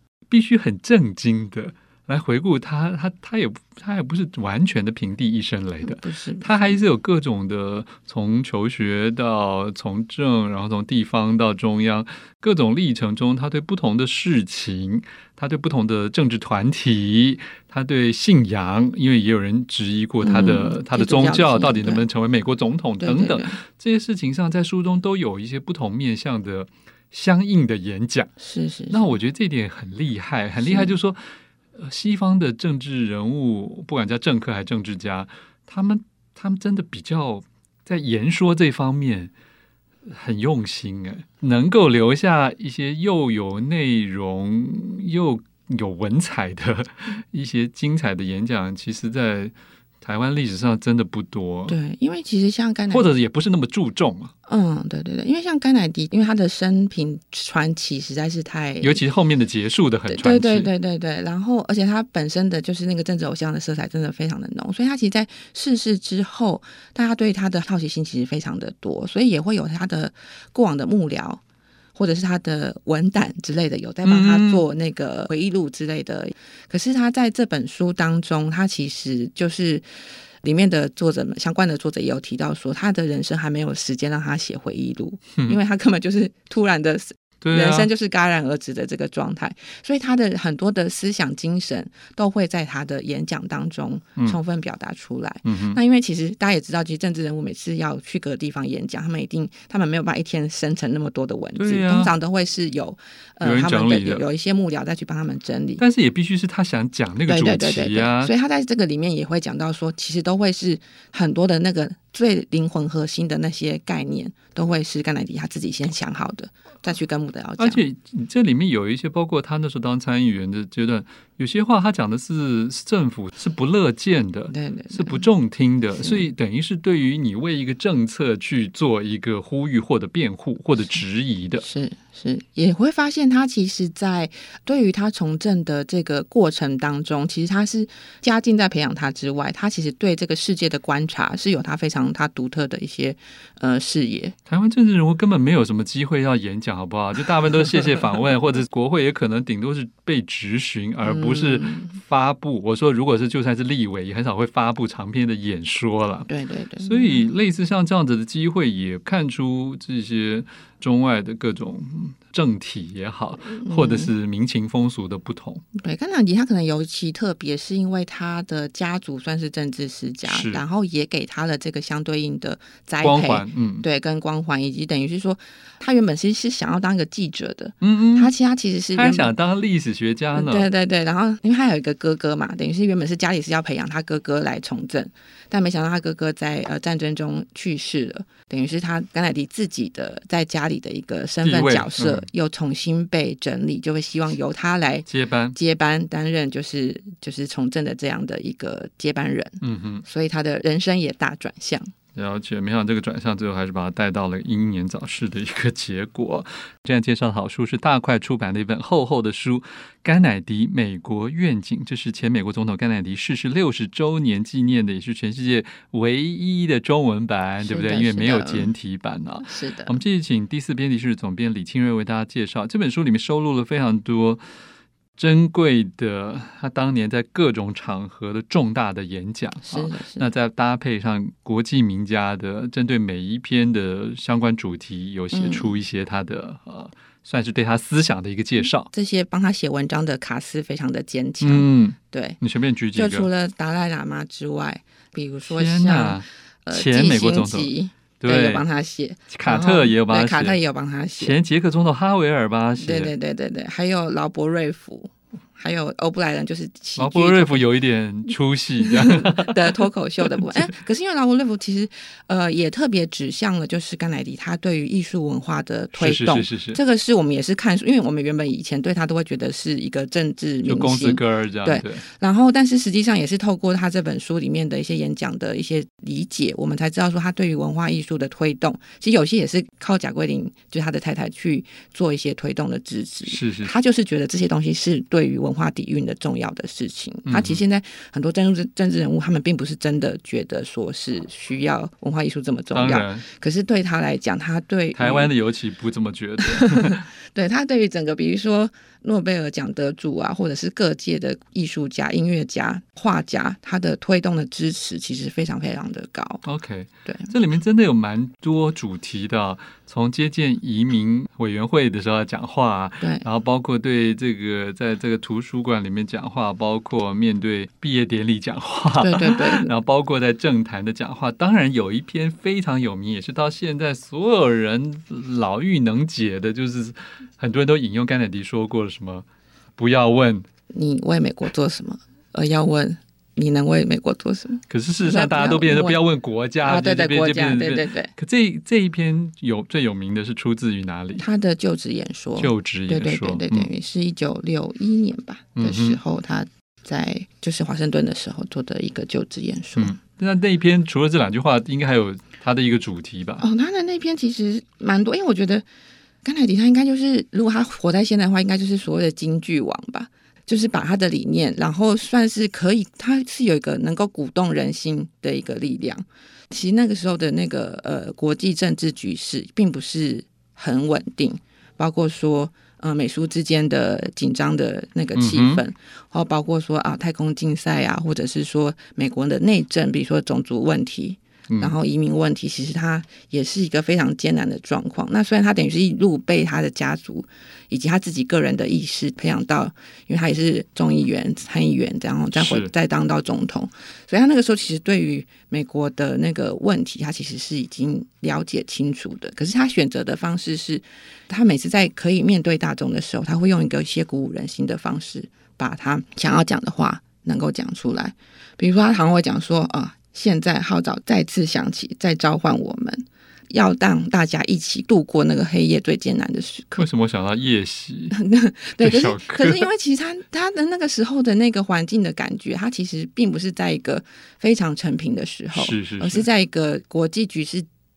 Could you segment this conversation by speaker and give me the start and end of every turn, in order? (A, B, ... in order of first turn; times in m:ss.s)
0:00.3-0:28.3 A
0:05.8-0:06.8 B
0:20.2-0:22.0 B
0:23.0-0:23.6 B
0:28.4-0:29.2 B
0:28.9-0:31.2 A
0:30.6-0:30.9 B
0:31.8-0:39.3 A
0:40.0-0:51.8 A
0:51.7-0:53.1 B
0:52.9-0:54.3 A
0:54.5-0:59.0 B
0:58.8-1:00.7 A
1:00.1-1:11.4 B
1:11.9-1:19.8 B
1:14.0-1:14.6 A
1:20.4-1:45.8 B
1:27.4-1:27.9 A
1:35.4-1:35.8 A
1:41.6-1:42.1 A
1:43.4-1:44.3 A
1:45.8-1:48.3 A
1:47.3-1:57.8 B
1:57.6-2:11.6 A
2:04.5-2:05.3 B
2:06.0-2:06.2 B
2:11.6-2:24.4 B
2:24.5-2:45.6 A
2:31.0-2:32.0 B
2:36.3-2:37.3 B
2:43.5-2:44.1 B
2:45.8-2:59.3 B
2:50.2-2:50.6 A
2:53.0-2:53.8 A
2:57.8-2:58.3 A
2:58.9-3:00.7 A
3:00.3-3:21.9 B
3:11.4-3:12.3 A
3:15.0-3:15.6 A
3:19.6-3:20.0 A
3:22.1-3:44.4 A
3:37.6-3:38.7 B
3:39.4-3:40.0 B
3:45.2-3:58.9 A
3:49.6-3:50.3 B
3:55.3-3:55.7 B
3:58.9-4:02.4 B
4:01.4-4:03.3 A
4:02.9-4:11.4 B
4:05.5-4:08.6 A
4:09.3-4:10.6 A
4:11.2-4:13.1 A
4:12.8-4:17.7 B
4:17.0-4:20.7 A
4:18.8-4:55.3 B
4:26.0-4:26.8 A
4:30.6-4:32.0 A
4:43.3-4:43.7 A
4:47.2-4:47.6 A
4:52.7-4:53.2 A
4:55.0-4:57.0 A
4:56.5-5:06.4 B
5:06.4-5:30.4 A
5:07.0-5:07.3 B
5:19.0-5:19.7 B
5:30.7-5:36.0 B
5:34.7-5:41.2 A
5:36.6-5:38.1 B
5:41.2-5:50.0 B
5:42.4-5:43.7 A
5:45.5-5:46.0 A
5:49.8-5:53.4 A
5:53.4-5:55.6 B
5:56.2-6:56.9 B
6:15.1-6:15.6 A
6:21.5-6:21.8 A
6:32.3-6:32.7 A
6:56.8-6:58.2 A
6:58.1-7:07.7 B
6:58.8-6:59.7 A
7:05.5-7:06.3 A